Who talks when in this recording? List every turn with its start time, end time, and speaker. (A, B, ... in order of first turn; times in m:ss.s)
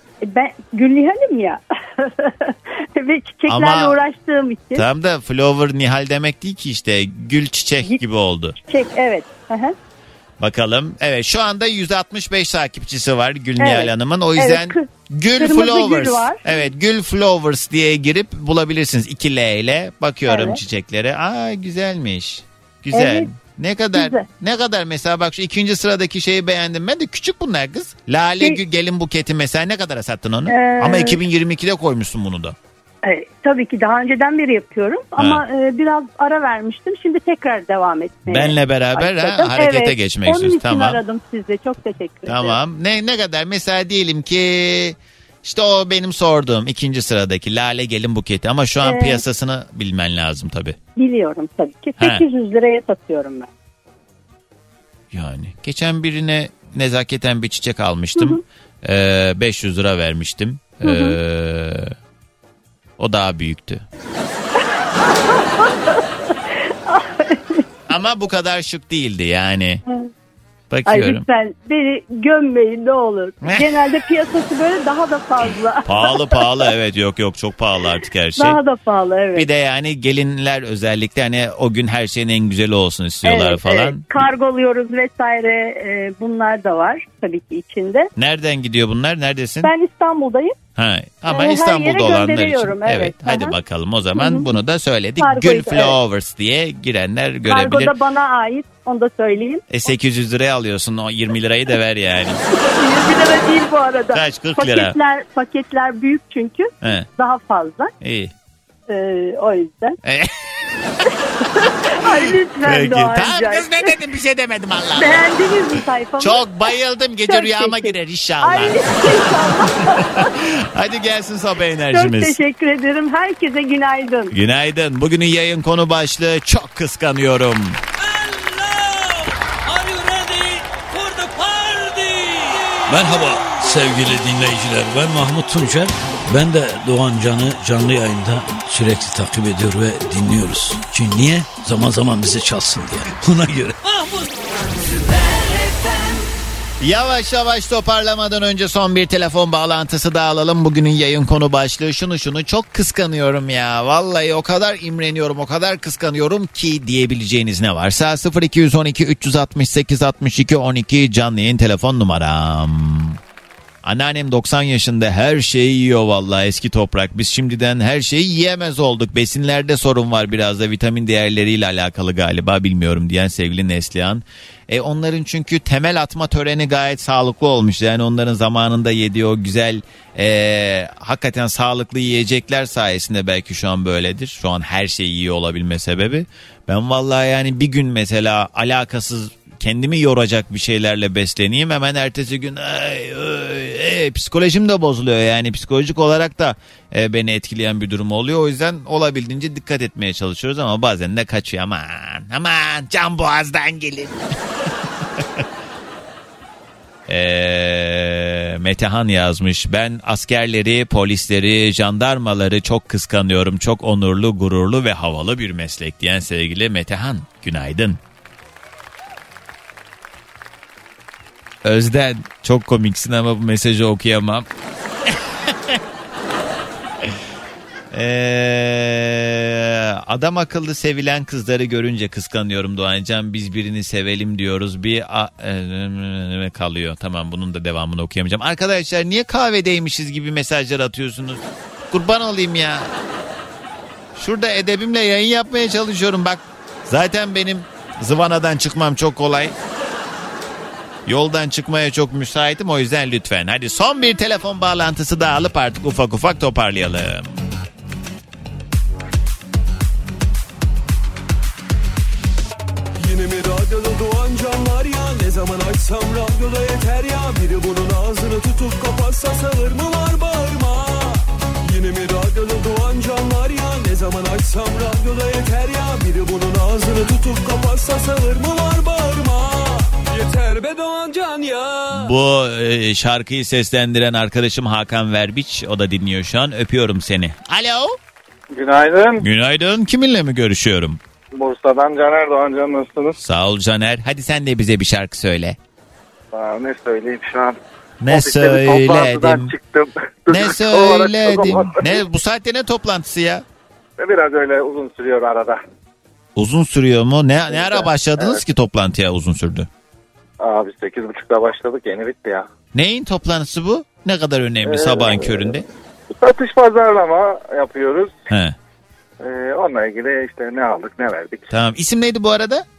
0:00.2-0:04.9 A
0:03.5-0:04.0 B
0:04.8-0:08.6 B
0:08.6-0:09.8 A
0:10.4-0:32.6 B
0:13.6-0:16.7 A
0:20.3-0:20.6 A
0:22.9-0:23.3 A
0:23.9-0:24.3 A
0:30.5-0:31.2 A
0:33.0-0:42.6 A
0:35.2-0:35.4 B
0:38.3-0:41.0 B
0:42.3-0:50.8 B
0:48.8-0:49.2 A
0:51.0-0:53.5 A
0:52.0-0:52.2 B
0:55.1-1:01.9 B
0:58.2-0:58.4 A
1:00.8-1:01.2 A
1:03.0-1:03.8 B
1:05.0-1:06.0 A
1:06.9-1:07.6 A
1:07.9-1:09.8 B
1:10.7-1:11.2 B
1:10.9-1:16.7 A
1:13.4-1:14.0 B
1:15.9-1:18.6 B
1:18.4-1:19.5 A
1:19.4-1:24.0 B
1:23.2-1:28.1 A
1:28.2-1:29.7 B
1:29.6-1:30.6 A
1:30.8-1:38.0 B
1:31.3-1:33.6 A
1:34.1-1:34.5 A
1:35.2-1:36.0 A
1:37.4-1:39.6 A
1:39.7-1:42.4 B
1:42.5-1:47.9 A
1:44.1-1:45.0 B
1:46.8-1:47.1 B
1:48.0-1:48.3 B
1:48.9-1:50.0 A
1:50.0-1:51.0 B
1:51.4-1:54.0 A
1:52.0-1:55.3 B
1:55.0-1:56.7 A
1:56.2-2:02.4 B
1:57.3-2:00.4 A
2:01.9-2:04.4 A
2:04.3-2:07.8 B
2:08.0-2:24.3 C
2:26.8-2:43.2 B
2:43.8-3:24.2 B
3:27.1-3:38.0 B
3:41.6-3:44.5 B
3:45.1-3:45.8 B
3:47.9-4:02.9 B
4:04.2-4:09.6 B
4:11.1-4:17.4 B
4:23.0-4:42.1 D
4:41.9-4:48.0 B
4:48.5-4:49.2 E
4:49.2-4:51.0 B
4:51.3-4:53.2 E
4:53.2-4:55.6 B
4:56.3-4:57.6 E
4:58.0-4:59.5 B
4:58.1-5:02.0 E
5:00.3-5:03.4 B
5:04.0-5:05.6 E
5:06.4-5:09.7 B
5:07.5-5:08.4 E
5:10.4-5:12.4 E
5:12.7-5:15.6 B
5:14.6-5:15.6 E
5:16.2-5:18.1 E
5:18.3-5:18.6 B
5:19.2-5:21.5 E
5:21.5-5:22.6 B